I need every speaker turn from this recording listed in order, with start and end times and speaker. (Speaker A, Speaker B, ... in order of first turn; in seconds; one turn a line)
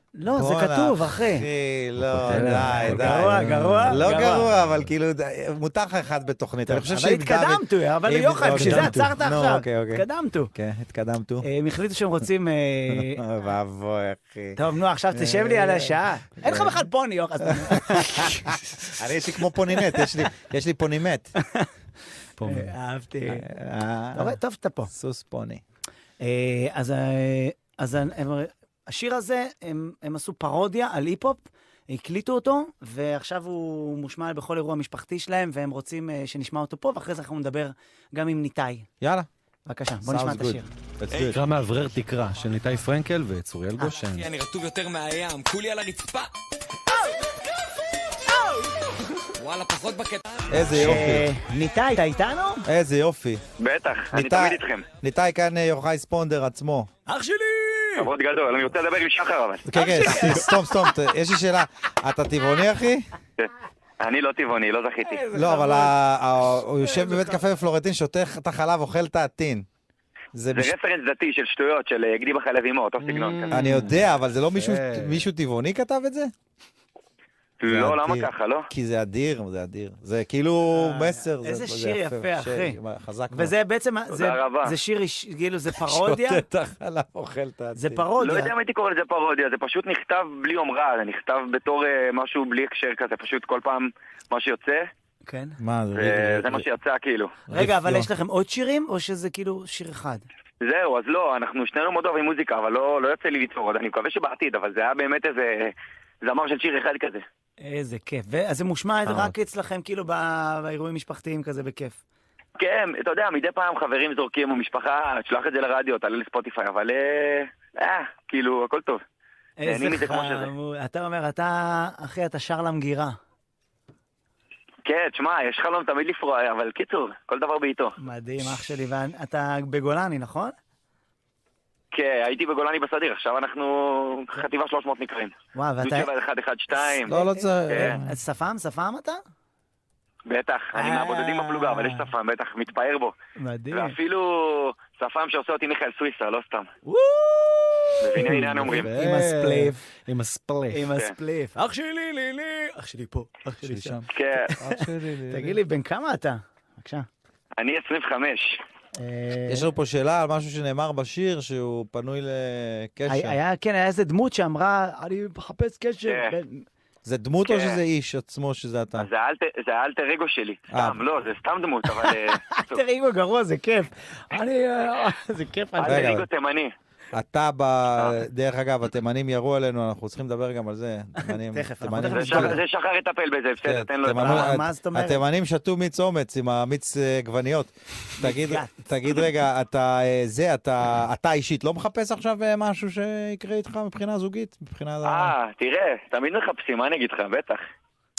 Speaker A: 0.1-1.5
Speaker B: 0.2-11.4
Speaker C: 2.1-4.1
Speaker A: 2.4-4.5
Speaker A: 6.7-10.5
Speaker C: 8.5-9.1
Speaker A: 11.4-13.2
Speaker B: 12.9-14.6
Speaker A: 14.6-18.6
Speaker B: 15.1-16.8
Speaker B: 17.6-18.2
Speaker B: 19.0-21.3
Speaker A: 19.7-20.2
Speaker A: 21.4-21.7
Speaker C: 22.4-22.7
Speaker A: 22.4-23.4
Speaker B: 23.3-24.4
Speaker A: 24.1-24.9
Speaker B: 24.9-25.6
Speaker A: 26.2-38.9
Speaker B: 39.0-39.3
Speaker A: 39.6-40.7
Speaker B: 40.0-41.4
Speaker C: 41.3-44.3
Speaker D: 44.1-46.3
Speaker D: 49.4-50.6
Speaker B: 50.5-51.3
Speaker A: 50.7-52.6
Speaker B: 52.6-53.4
Speaker E: 53.6-54.9
Speaker B: 54.1-56.9
Speaker A: 57.1-58.1
Speaker E: 58.0-59.6
Speaker B: 59.6-63.1
Speaker A: 59.7-60.9
Speaker E: 63.4-65.2
Speaker A: 65.0-65.9
Speaker B: 65.3-69.7
Speaker A: 66.8-67.4
Speaker B: 70.3-70.7
Speaker E: 70.5-73.5
Speaker C: 73.0-75.3
Speaker B: 73.5-76.3
Speaker E: 77.6-78.7
Speaker B: 77.6-83.5
Speaker A: 80.7-82.8
Speaker A: 83.3-86.4
Speaker E: 84.1-84.7
Speaker B: 85.7-88.0
Speaker A: 87.8-88.5
Speaker E: 88.2-94.9
Speaker A: 95.2-95.6
Speaker B: 95.6-96.7
Speaker E: 95.9-97.3
Speaker B: 97.5-98.1
Speaker A: 97.5-100.2
Speaker E: 100.6-107.2
Speaker A: 107.6-112.0
Speaker E: 112.6-119.0
Speaker A: 119.6-123.2
Speaker E: 119.6-120.5
Speaker E: 124.8-127.9
Speaker A: 128.0-130.5
Speaker E: 131.9-137.1
Speaker A: 135.5-136.1
Speaker B: 137.0-138.2
Speaker A: 137.1-139.2
Speaker E: 137.7-138.0
Speaker E: 140.2-143.1
Speaker A: 140.7-142.0
Speaker A: 143.4-143.9
Speaker E: 143.7-146.7
Speaker A: 146.8-149.8
Speaker E: 148.0-148.9
Speaker C: 148.3-150.9
Speaker A: 150.7-157.1
Speaker B: 153.6-155.6
Speaker E: 154.1-154.5
Speaker E: 157.6-158.6
Speaker A: 158.9-159.7
Speaker B: 159.5-163.4
Speaker A: 163.1-166.7
Speaker E: 166.1-166.3
Speaker B: 167.0-169.1
Speaker E: 167.5-167.8
Speaker E: 169.0-172.8
Speaker B: 170.7-171.0
Speaker A: 172.0-176.2
Speaker E: 175.8-176.7
Speaker B: 175.8-176.3
Speaker B: 177.1-182.6
Speaker A: 181.2-182.6
Speaker E: 182.0-184.5
Speaker B: 183.6-195.3
Speaker A: 184.1-185.2
Speaker A: 188.2-188.7
Speaker E: 195.0-197.6